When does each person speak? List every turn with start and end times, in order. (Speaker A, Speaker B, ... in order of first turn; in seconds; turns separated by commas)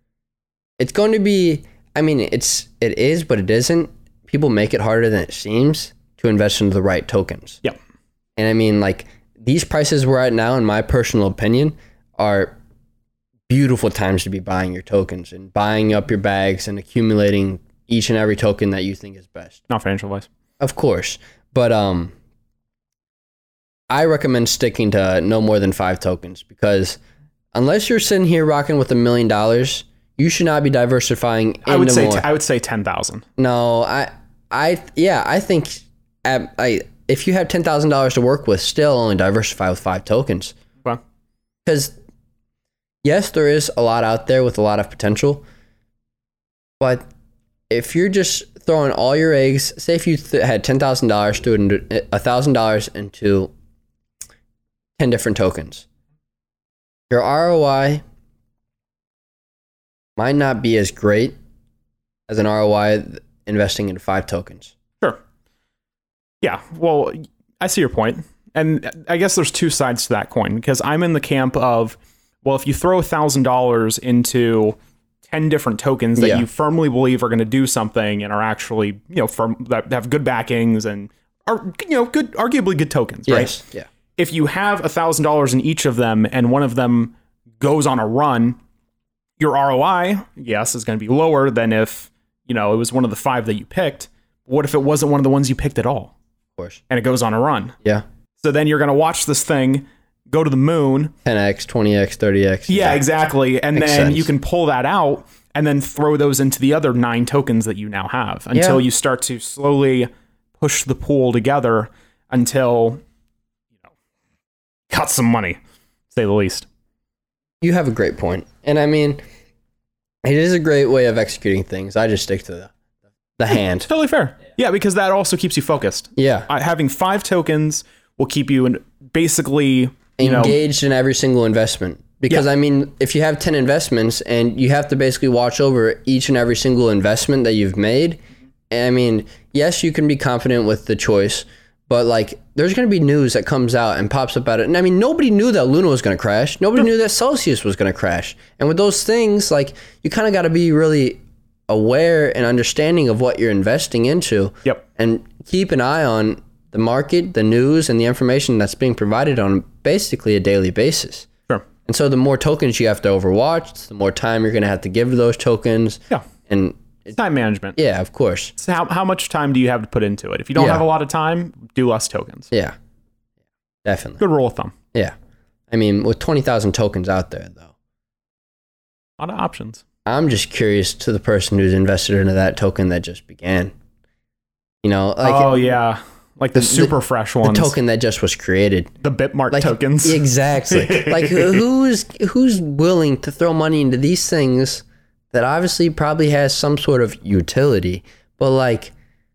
Speaker A: 0.8-7.6, Speaker A: 8.4-12.6, Speaker A: 13.5-19.6, Speaker B: 19.7-20.3, Speaker A: 20.6-22.1, Speaker A: 23.9-27.0, Speaker A: 27.5-32.3, Speaker B: 31.6-33.2, Speaker A: 33.4-40.5, Speaker A: 41.6-41.9, Speaker A: 43.0-45.4, Speaker A: 46.8-47.0, Speaker A: 47.7-53.5, Speaker A: 55.0-55.9, Speaker A: 57.1-58.0, Speaker A: 60.2-61.3, Speaker A: 62.3-64.7, Speaker B: 66.4-83.5, Speaker A: 76.2-76.4, Speaker A: 83.3-83.9, Speaker B: 84.2-88.6, Speaker B: 89.4-96.1, Speaker B: 96.9-97.8, Speaker B: 98.4-101.1, Speaker A: 101.2-103.0, Speaker B: 102.7-113.0, Speaker A: 103.7-104.3, Speaker A: 108.5-108.8, Speaker B: 114.9-115.6, Speaker B: 116.1-116.7, Speaker A: 117.6-119.2, Speaker A: 120.2-122.7, Speaker A: 123.4-123.9, Speaker B: 123.5-130.6, Speaker A: 126.2-126.5, Speaker A: 130.2-138.2, Speaker A: 138.7-161.3, Speaker A: 161.8-167.2, Speaker B: 167.1-167.8, Speaker A: 167.8-168.5, Speaker B: 168.6-172.5, Speaker A: 170.6-170.8, Speaker A: 173.8-174.2, Speaker B: 174.2-174.7, Speaker A: 175.7-177.7, Speaker B: 179.2-179.8, Speaker A: 180.1-183.7, Speaker A: 184.8-185.7, Speaker B: 185.2-187.7, Speaker A: 186.6-188.9, Speaker B: 189.0-191.6, Speaker A: 189.5-198.9